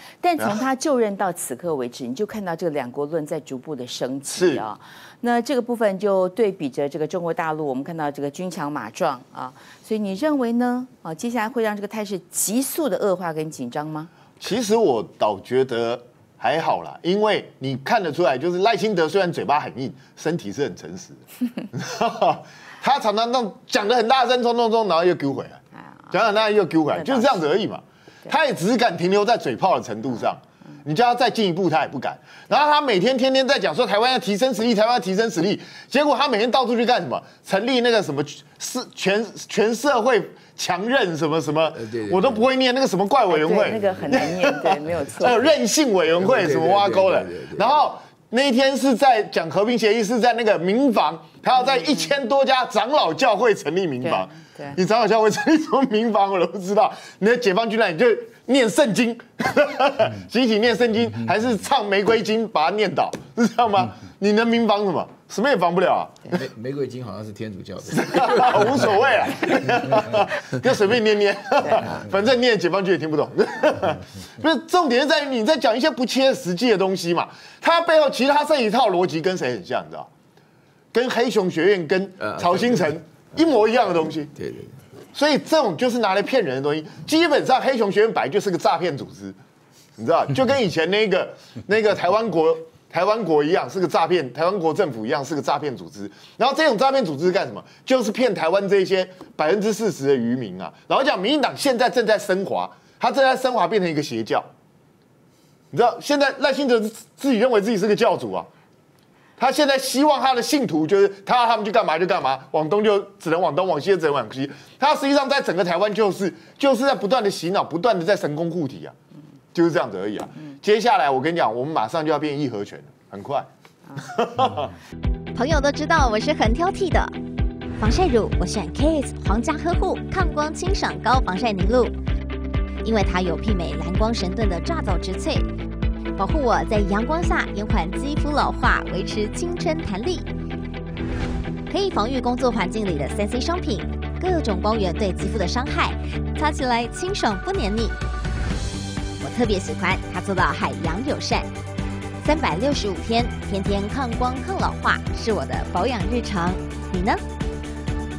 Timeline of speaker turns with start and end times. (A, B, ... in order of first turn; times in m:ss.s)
0:00.2-0:14.1 A
0:04.3-0:04.6 B
0:14.4-0:44.5 B
0:26.9-0:27.5 A
0:41.8-0:42.4 C
0:43.3-0:45.5 A
0:45.2-1:06.3 B
0:46.2-0:47.8 C
0:54.0-0:54.8 A
1:06.3-1:08.9 C
1:07.9-1:20.1 B
1:20.9-1:24.3 B
1:22.2-1:22.9 C
1:24.4-1:24.8 C
1:25.1-1:29.4 B
1:30.0-1:44.5 B
1:45.7-1:48.5 B
1:49.4-1:58.9 B
1:59.5-2:04.7 B
2:05.4-2:07.1 D
2:07.8-2:12.0 D
2:12.8-2:15.5 D
2:16.2-2:20.3 D
2:21.7-2:28.0 D
2:29.2-2:31.5 D
2:32.2-2:37.2 D